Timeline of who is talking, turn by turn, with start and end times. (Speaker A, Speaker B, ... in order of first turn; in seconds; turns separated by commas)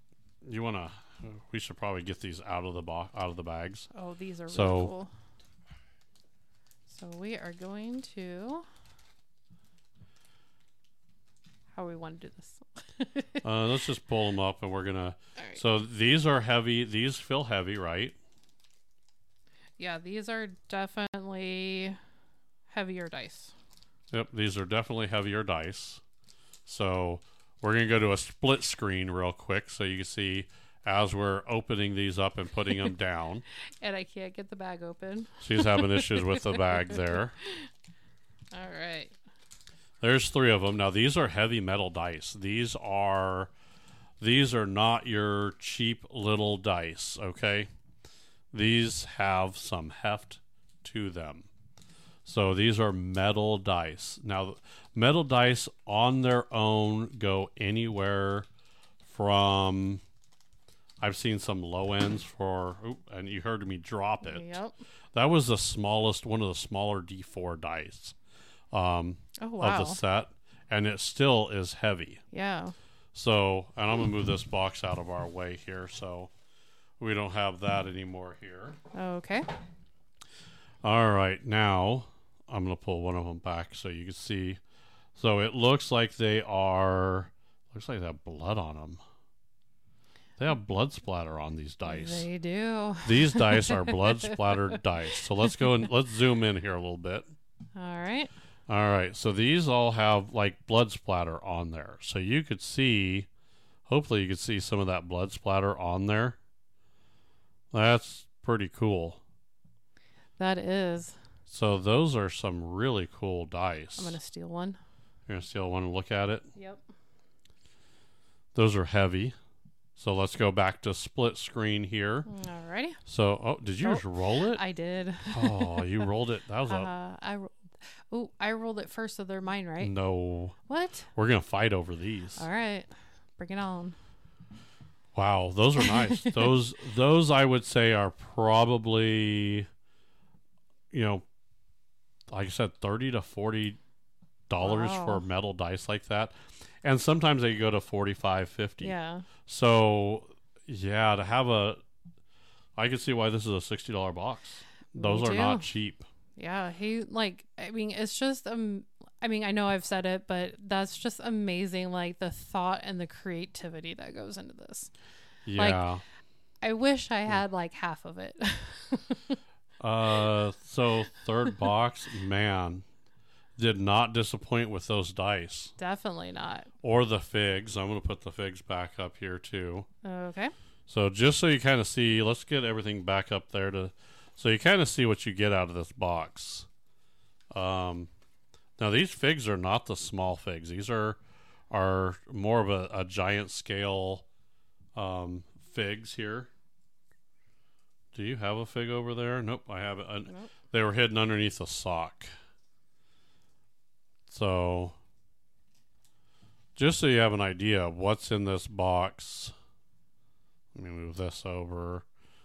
Speaker A: 0.4-3.9, Speaker B: 3.9-5.1, Speaker A: 4.5-4.9, Speaker B: 6.9-8.7, Speaker B: 11.7-13.4, Speaker A: 13.4-18.2, Speaker B: 19.8-22.0, Speaker B: 22.7-23.5, Speaker A: 24.1-26.0, Speaker A: 26.6-33.4, Speaker B: 33.8-37.6, Speaker A: 35.4-37.4, Speaker B: 38.5-39.1, Speaker A: 40.0-43.5, Speaker A: 44.2-47.7, Speaker A: 48.5-51.5, Speaker A: 52.2-58.5, Speaker A: 59.0-60.0, Speaker A: 61.0-64.6, Speaker B: 64.2-64.8, Speaker A: 65.1-68.2, Speaker A: 68.7-72.2, Speaker B: 69.4-70.0, Speaker B: 72.3-72.7, Speaker A: 73.1-76.3, Speaker A: 77.0-78.8, Speaker B: 78.9-79.5, Speaker A: 80.8-84.6, Speaker A: 85.2-89.0, Speaker A: 90.4-92.3, Speaker B: 91.8-94.8, Speaker A: 93.0-97.2, Speaker B: 97.8-98.3, Speaker A: 98.7-103.3, Speaker A: 103.8-106.4, Speaker A: 107.7-109.2, Speaker B: 110.4-111.2, Speaker A: 111.5-114.2, Speaker B: 114.0-114.8, Speaker A: 115.3-116.5, Speaker B: 116.5-116.8, Speaker A: 118.5-119.3, Speaker A: 120.0-122.3, Speaker B: 122.3-123.0, Speaker A: 123.0-124.6, Speaker B: 123.8-126.1, Speaker A: 125.3-126.9, Speaker B: 126.7-127.5, Speaker B: 128.1-129.9, Speaker A: 129.8-130.6, Speaker B: 130.7-131.1, Speaker A: 131.1-132.4, Speaker B: 132.4-133.9, Speaker A: 135.1-139.7, Speaker B: 135.8-136.5, Speaker A: 140.9-141.2, Speaker A: 142.3-143.8, Speaker A: 144.5-151.8, Speaker B: 144.6-145.2, Speaker B: 148.8-149.3, Speaker A: 152.8-156.0, Speaker B: 154.9-155.7, Speaker B: 156.3-164.9, Speaker A: 165.4-166.0, Speaker B: 165.6-165.8, Speaker B: 166.6-169.4, Speaker A: 169.8-172.8, Speaker A: 173.6-175.7, Speaker B: 175.8-176.7, Speaker A: 176.8-179.9, Speaker B: 180.0-180.5, Speaker A: 180.9-186.7, Speaker A: 187.5-188.1, Speaker A: 188.8-191.2, Speaker A: 191.7-194.2, Speaker A: 194.9-196.5, Speaker A: 198.1-202.3, Speaker A: 204.3-204.9, Speaker A: 206.8-209.5, Speaker A: 210.7-212.1